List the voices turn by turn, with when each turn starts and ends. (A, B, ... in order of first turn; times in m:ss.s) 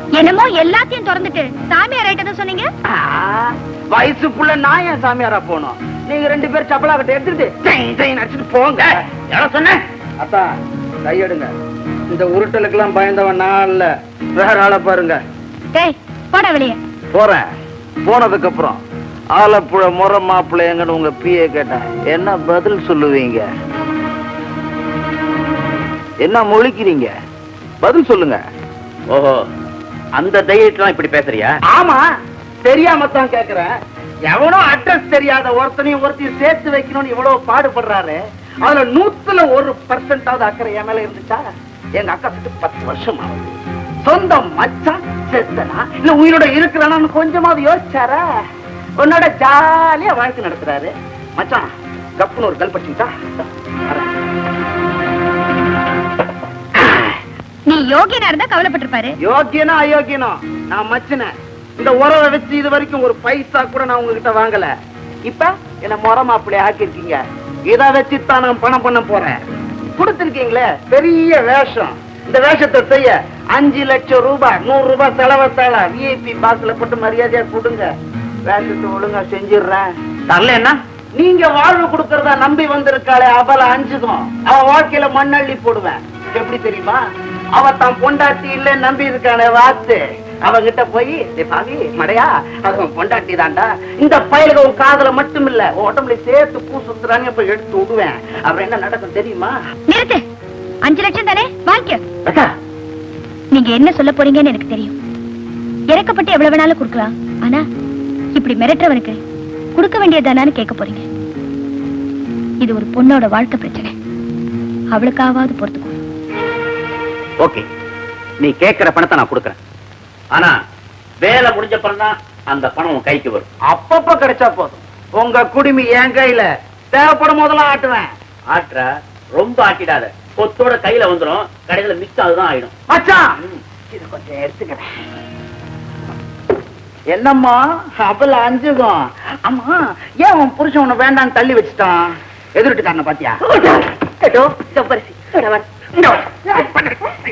0:00.2-0:02.7 A
0:02.9-0:09.0 B
0:09.3-0:09.8 C
0:10.2-0:10.5 B
0:11.0-0:11.5 B
0:12.1-0:15.2 B
0:15.7-0:16.8 A
0:17.1-0:17.4 B
0:18.0-0:18.8 B
0:19.3-0:23.4 B
0:26.2-0:27.1 B
0:27.8-0:28.4 B
0:29.1-0:29.4 C
0:30.2-0:31.6 C
0:31.7-0:32.0 B
0:32.6-0:33.7 B
0:34.3-0:41.4 B
0:42.0-0:48.2 B
0:49.0-0:53.1 B
0:57.7-0:59.2 A
0:59.2-1:04.7 B
1:05.2-1:09.4 B
1:10.0-1:17.9 B
1:18.4-1:19.9 B
1:20.3-1:20.7 C
1:21.2-1:27.0 B
1:27.5-1:39.5 B
1:39.9-1:40.2 A
1:40.8-1:42.0 A
1:43.5-1:44.9 A
1:45.9-1:47.6 A
1:48.4-1:49.2 A
1:49.8-1:51.0 A
1:52.6-1:53.9 A
1:54.9-1:55.9 A
1:58.4-1:59.6 C
2:01.2-2:03.5 C
2:03.7-2:08.0 B
2:08.5-2:12.7 C
2:12.9-2:13.3 B
2:13.9-2:14.8 B
2:17.1-2:23.4 B
2:23.5-2:25.7 D
2:26.2-2:27.1 D